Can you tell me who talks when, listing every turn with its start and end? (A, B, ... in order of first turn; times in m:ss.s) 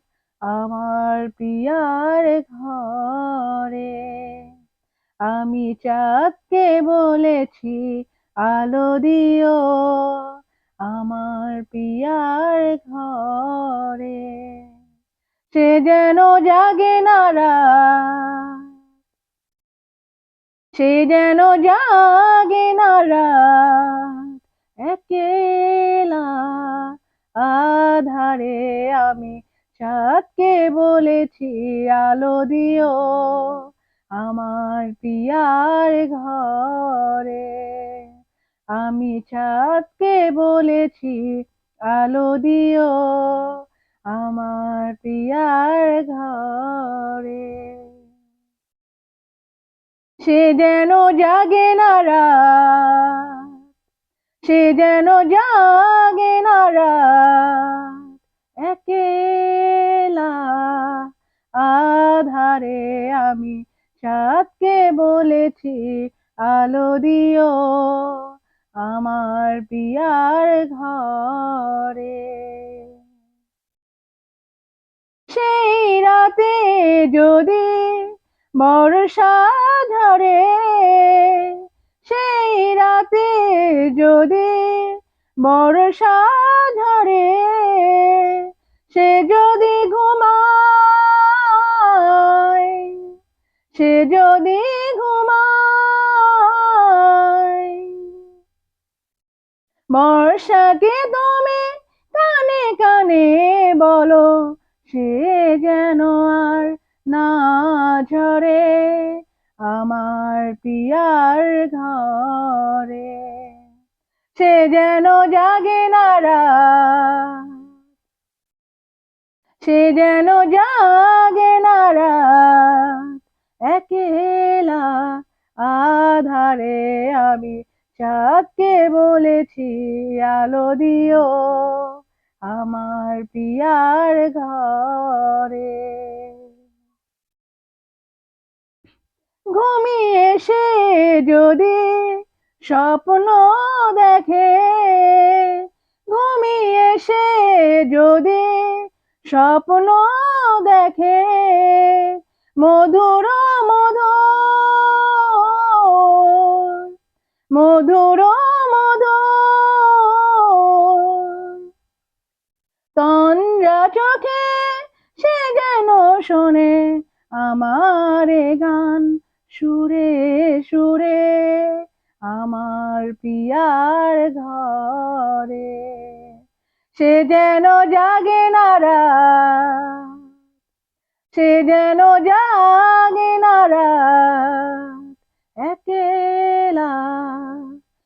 0:00.5-0:04.5 A
0:05.3-0:07.9 A
0:08.4-0:10.3 A
0:10.9-0:14.6 A
0:15.5-0:18.6 A
0:20.8-0:24.3 A
0:24.8-0:33.6 A
0:34.2-0:38.1 A
0:38.8-0:41.3 A
0:41.9-0:43.6 A
0:44.1-0:47.9 A
0:50.2-0:53.5 A
0:54.4-0:58.0 A
0:58.6-1:01.1 A
1:01.6-1:08.3 A
1:08.8-1:12.9 A
1:15.3-1:18.1 A
1:18.6-1:33.0 A
1:33.7-1:38.1 A
1:39.9-1:53.5 A
1:54.4-1:57.5 A
1:59.6-2:03.1 A
2:03.7-2:11.9 A
2:12.5-2:16.4 A
2:19.5-2:36.9 A
2:37.5-2:41.6 A
2:43.0-2:56.3 A
2:56.9-3:00.1 A
3:01.3-3:05.0 A
3:05.6-3:07.7 A